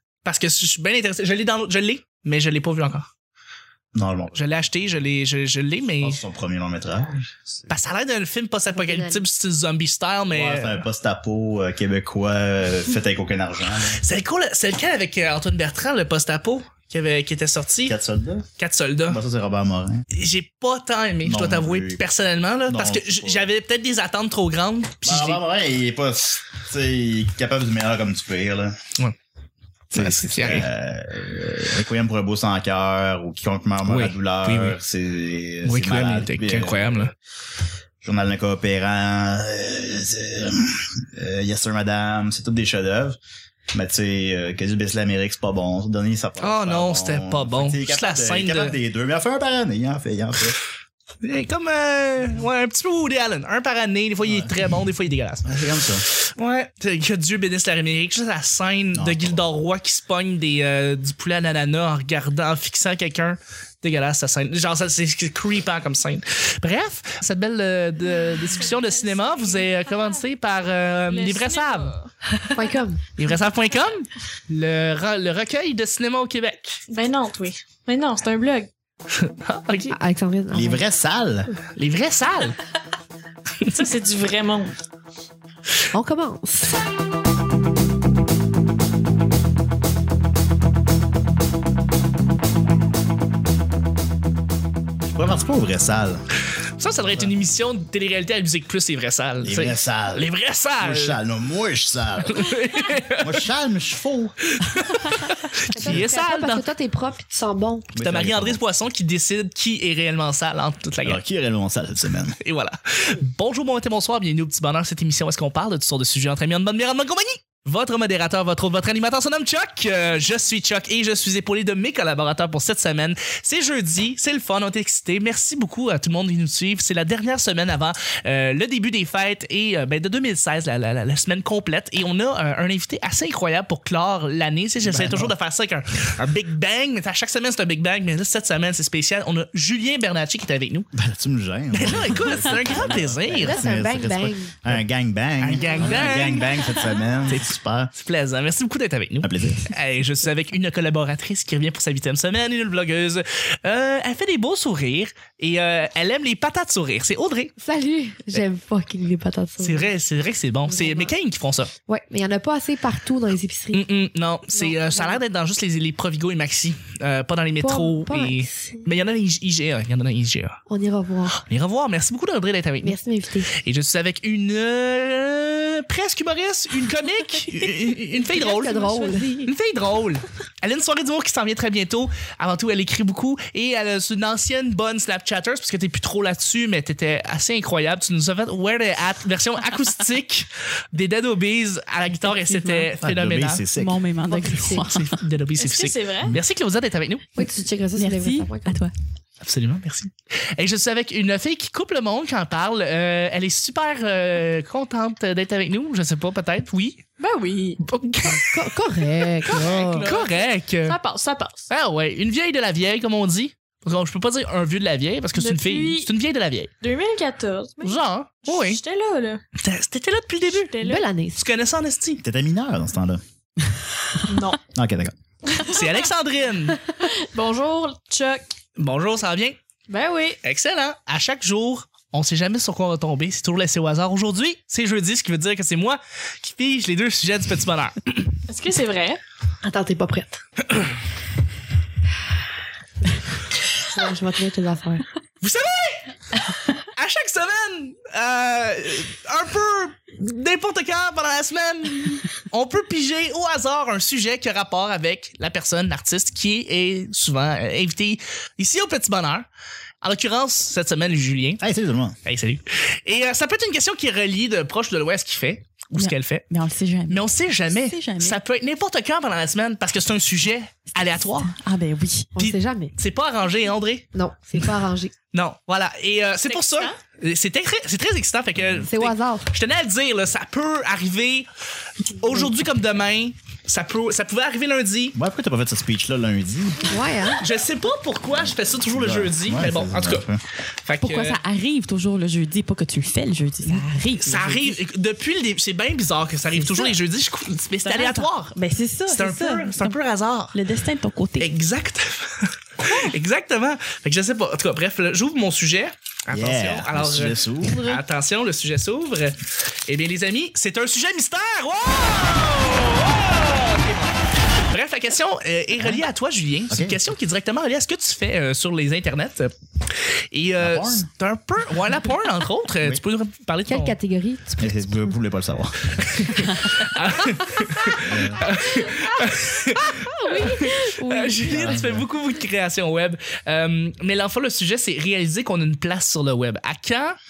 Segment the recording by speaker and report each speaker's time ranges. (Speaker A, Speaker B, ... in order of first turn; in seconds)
Speaker A: 0.2-3.1, 4.3-6.2, 7.7-10.8, 13.9-18.0, 18.6-19.2, 20.1-25.4, 29.9-30.7, 33.9-34.8, 35.6-37.1, 46.4-48.8, 51.2-71.9, 73.2-76.8, 79.2-80.0, 81.8-82.6, 96.8-101.2, 102.2-103.4, 104.5-106.7, 108.0-111.2, 112.4-140.9, 141.7-143.6, 145.4-146.6, 147.3-157.5, 159.6-161.7, 163.7-170.6, 171.4-173.0, 173.5-193.6, 194.7-197.3, 199.4-207.1, 207.8-211.0, 211.7-216.7, 217.8-218.8, 219.6-220.7, 221.4-222.2, 225.6-226.8, 228.8-229.6, 230.4-238.3, 245.4-246.1, 246.9-259.5, 260.0-261.6, 262.2-266.5, 267.1-271.6, 272.4-274.1, 275.3-281.5, 282.0-285.2, 287.4-291.4, 293.7-300.6, 301.4-324.0, 326.0-337.2
Speaker B: 3.9-4.4, 6.0-7.3, 10.3-14.0, 17.9-18.5, 19.1-20.1, 21.2-22.1, 22.7-23.5, 25.1-28.8, 29.9-37.1, 38.0-43.2, 43.7-50.6, 54.2-54.5, 55.5-56.1, 58.9-59.4, 80.5-81.5, 95.1-96.2, 97.0-97.3, 99.4-100.3, 100.8-102.5, 103.2-104.3, 107.9-108.6, 111.0-112.4, 134.8-135.3, 140.9-147.9, 149.2-149.7, 193.0-194.0, 222.2-223.2, 224.7-225.2, 261.6-262.2, 285.1-286.9, 288.4-290.4, 306.3-308.0, 315.8-316.0, 316.7-317.0, 320.6-321.1, 324.6-326.1, 328.0-328.6, 331.5-332.1
Speaker C: 8.7-9.2, 72.5-73.0, 79.9-80.8, 85.9-86.7, 105.7-107.9, 143.4-144.5, 157.6-159.9, 160.7-161.1, 161.9-163.8, 164.5-165.2, 167.6-168.9, 170.7-171.4, 172.8-173.5, 178.2-179.5, 194.3-194.9, 197.4-198.8, 208.3-210.1, 220.8-221.4, 239.6-240.4, 243.8-245.0, 272.4-272.9, 274.1-275.1, 278.8-279.5, 286.9-287.4, 323.7-325.1
Speaker D: 68.4-70.2, 71.1-72.6, 76.9-78.7, 83.7-84.7, 195.6-196.3, 207.2-207.8, 209.5-211.7, 215.4-216.1, 216.8-219.4, 220.7-221.1, 224.3-224.6, 225.5-225.9, 226.9-228.5, 229.9-230.4, 238.5-239.2, 276.5-277.0
Speaker E: 193.7-195.2, 198.0-198.9, 266.0-268.4, 271.0-272.3, 291.0-294.8, 296.5-297.0, 297.8-300.0, 300.5-301.5, 330.3-331.5